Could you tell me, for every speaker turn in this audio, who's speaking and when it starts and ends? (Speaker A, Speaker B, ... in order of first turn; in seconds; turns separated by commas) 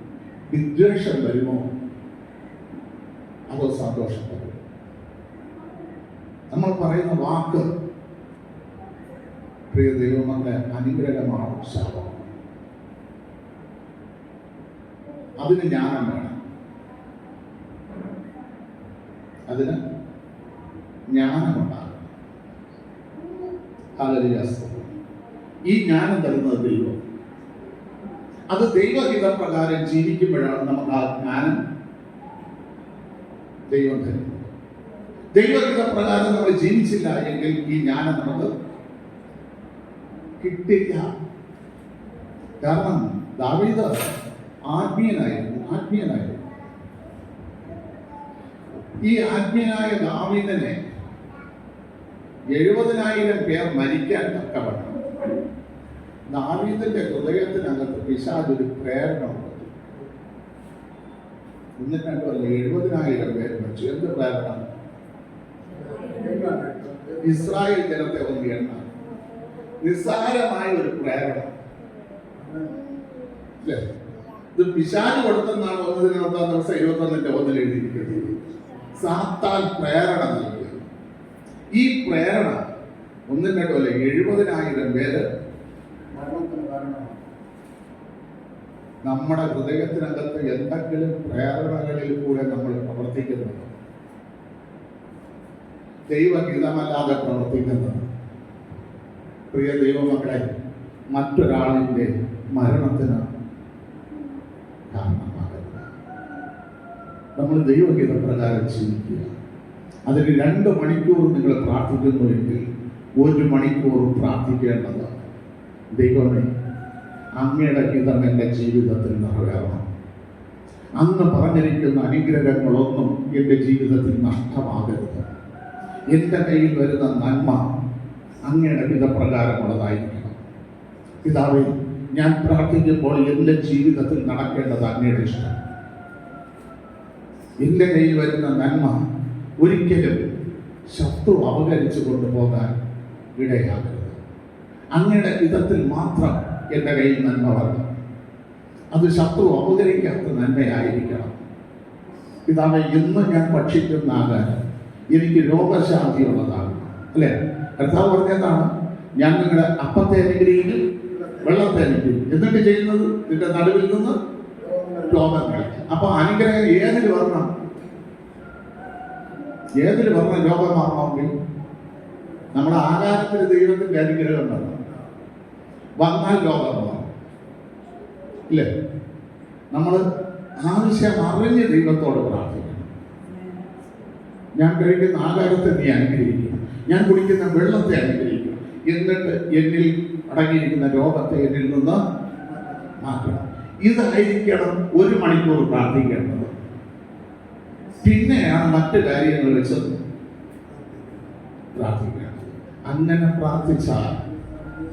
Speaker A: 0.5-1.7, Speaker A: 3.5-4.6, Speaker A: 6.5-7.7, Speaker A: 9.7-12.3, Speaker A: 15.4-16.4, Speaker A: 19.5-19.8, Speaker A: 21.1-22.1, Speaker A: 24.0-24.9, Speaker A: 25.7-27.0, Speaker A: 28.5-31.6, Speaker A: 33.7-34.5, Speaker A: 35.4-38.5, Speaker A: 40.4-41.1, Speaker A: 42.6-43.9, Speaker A: 44.7-46.5, Speaker A: 49.0-50.8, Speaker A: 52.5-55.0, Speaker A: 56.3-59.7, Speaker A: 61.8-64.7, Speaker B: 65.9-67.2, Speaker A: 67.2-68.9, Speaker A: 69.8-71.5, Speaker B: 72.4-72.8, Speaker A: 74.5-78.3, Speaker A: 79.0-80.9, Speaker A: 81.8-82.6, Speaker A: 83.3-85.2, Speaker B: 86.1-87.2, Speaker A: 89.0-93.7, Speaker A: 96.1-98.1, Speaker A: 99.5-100.5, Speaker A: 101.1-103.3, Speaker A: 104.9-105.9, Speaker A: 107.4-109.3, Speaker A: 110.1-112.7, Speaker A: 113.2-115.2, Speaker A: 116.0-116.5, Speaker A: 117.4-119.8, Speaker A: 121.0-125.3, Speaker A: 126.1-127.7, Speaker A: 128.4-130.4, Speaker A: 131.2-135.6, Speaker A: 137.6-139.0, Speaker A: 139.6-140.3, Speaker A: 140.9-142.7, Speaker A: 143.4-144.2, Speaker A: 145.0-147.9, Speaker A: 148.9-151.4, Speaker A: 152.5-154.6, Speaker A: 155.1-158.7, Speaker A: 159.2-160.9, Speaker A: 161.4-164.2, Speaker B: 164.7-165.0, Speaker A: 165.1-167.5, Speaker A: 169.8-171.3, Speaker A: 172.6-174.8, Speaker A: 176.0-177.1, Speaker A: 179.7-180.0, Speaker A: 180.7-182.9, Speaker A: 184.6-192.0, Speaker A: 193.0-196.5, Speaker A: 198.0-199.9, Speaker B: 200.8-201.1, Speaker A: 201.8-204.2